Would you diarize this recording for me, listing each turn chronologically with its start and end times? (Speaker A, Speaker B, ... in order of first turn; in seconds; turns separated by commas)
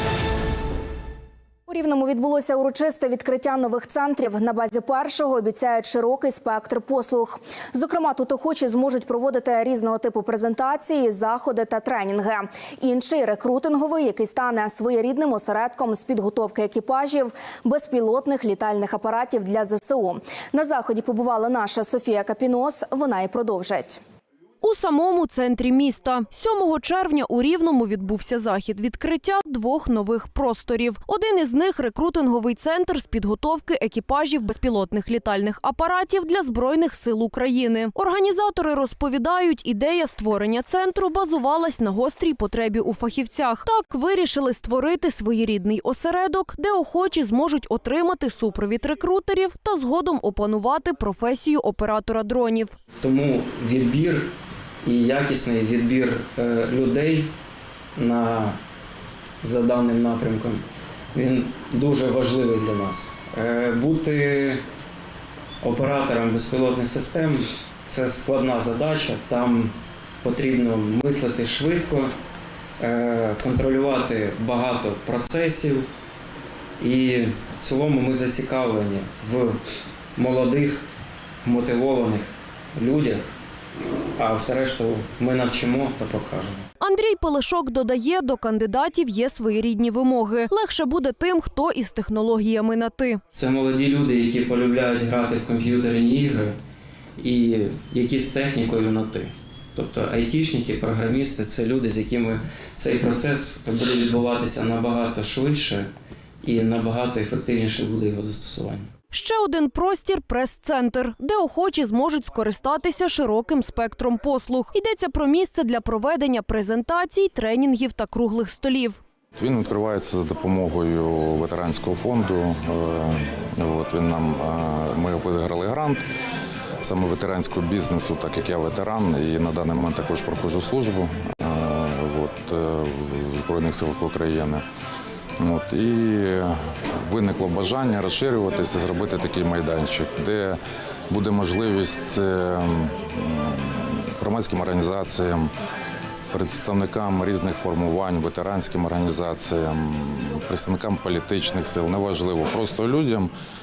Speaker A: 1.7-24.0, Speaker B: 24.6-52.7, Speaker C: 53.0-54.3, Speaker C: 54.8-57.3, Speaker C: 58.0-58.5, Speaker C: 59.4-64.6, Speaker C: 65.6-72.1, Speaker C: 72.8-75.9, Speaker C: 76.8-79.6, Speaker C: 80.2-80.8, Speaker C: 81.4-83.3, Speaker C: 84.2-86.6, Speaker B: 86.8-93.2, Speaker C: 93.3-96.5, Speaker C: 97.2-105.9, Speaker C: 106.4-108.9, Speaker B: 109.1-119.0, Speaker D: 119.4-126.0, Speaker D: 126.8-134.6, Speaker D: 135.4-140.6, Speaker D: 141.1-145.5, Speaker D: 146.3-153.3